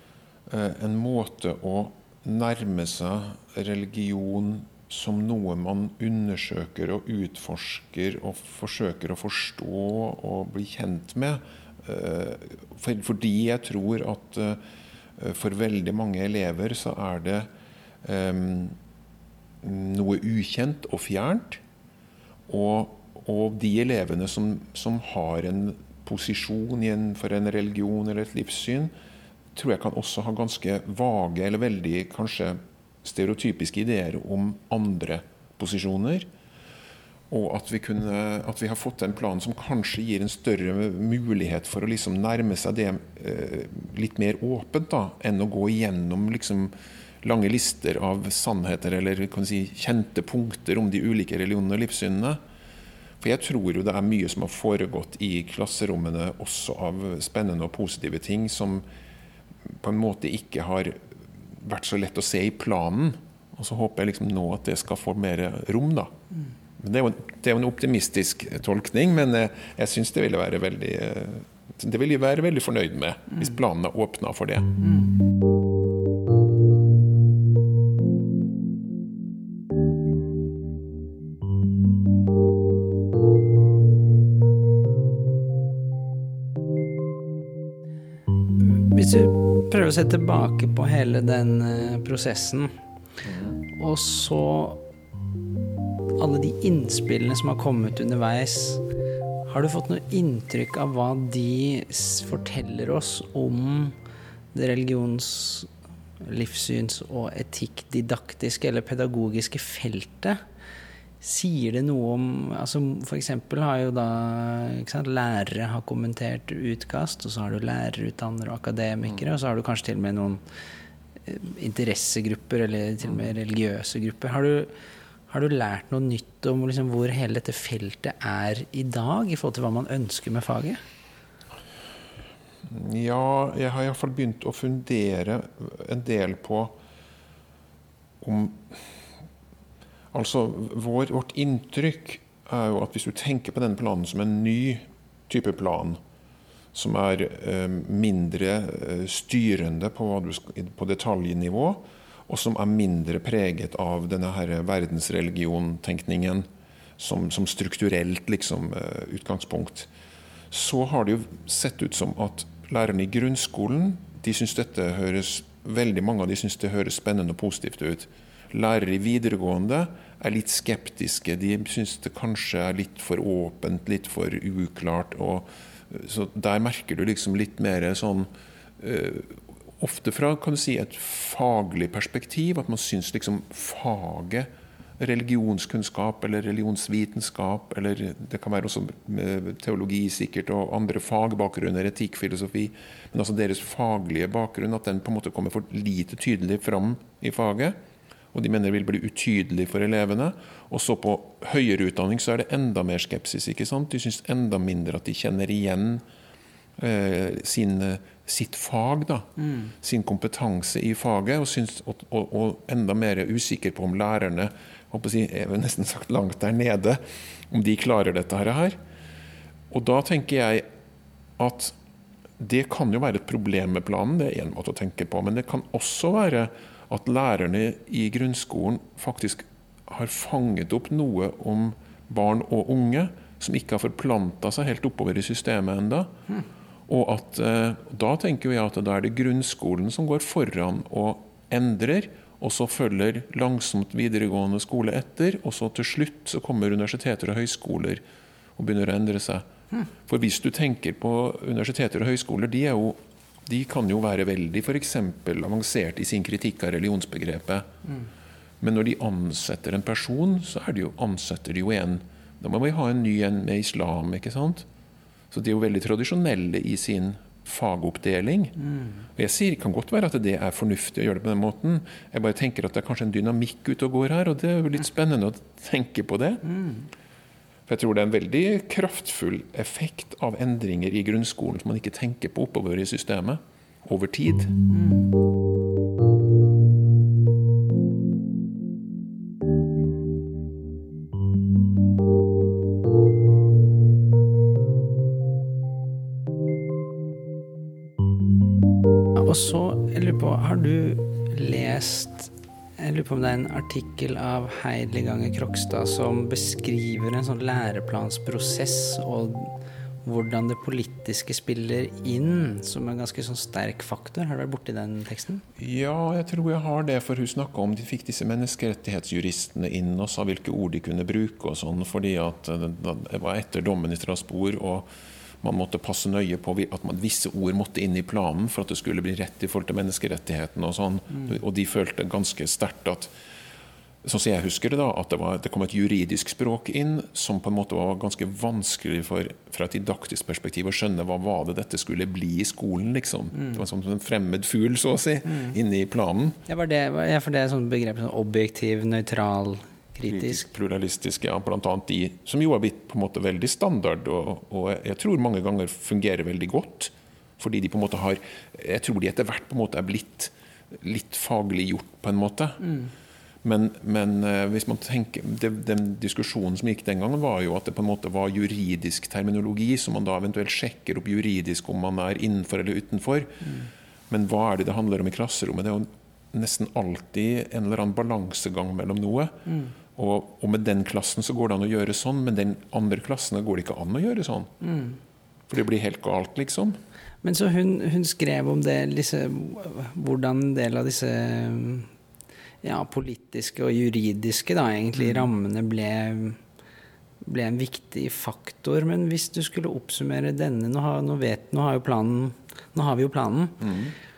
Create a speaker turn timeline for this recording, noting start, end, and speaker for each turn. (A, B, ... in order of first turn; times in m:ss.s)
0:00.5-0:14.6 A
0:15.2-0:17.5 A
0:18.0-0:18.8 A
0:19.6-0:21.6 A
0:22.5-0:28.9 A
0:29.5-0:36.3 A
0:37.3-0:52.4 A
0:53.2-0:58.8 A
0:59.6-1:06.1 A
1:06.8-1:14.8 A
1:14.8-1:15.1 B
1:28.6-1:32.7 B
1:33.2-1:33.6 A
1:33.7-1:34.8 B
1:36.2-1:38.8 B
1:39.5-1:44.0 B
1:44.5-1:45.7 B
1:46.2-1:50.4 B
1:51.2-2:00.4 B
2:01.2-2:04.7 B
2:05.3-2:10.8 B
2:12.6-2:16.8 A
2:18.2-2:19.0 A
2:20.1-2:26.0 A
2:26.7-2:39.9 A
2:40.5-3:17.8 A
3:18.3-3:26.0 A
3:26.8-3:38.8 A
3:29.4-3:29.7 B
3:39.7-3:40.6 A
3:41.4-3:41.8 A
3:42.4-3:56.1 A
3:56.9-4:08.0 A
4:08.6-4:09.5 A
4:10.0-4:17.7 A
4:18.6-4:24.7 A
4:25.3-4:28.6 A
4:29.1-4:36.4 A
4:37.7-4:44.6 A
4:44.7-4:45.0 B
4:59.2-5:15.4 B
5:15.6-5:24.9 A
5:25.4-5:33.1 A
5:34.0-5:46.4 A
5:45.3-5:45.5 B
5:46.5-5:50.4 B
5:50.1-6:02.8 A
6:03.4-6:24.5 A
6:19.5-6:19.7 B
6:24.6-6:25.0 B
6:25.5-6:26.8 A
6:27.2-6:31.9 B
6:32.6-6:36.4 B
6:34.9-6:35.3 A
6:37.2-6:43.6 B
6:43.6-6:43.9 A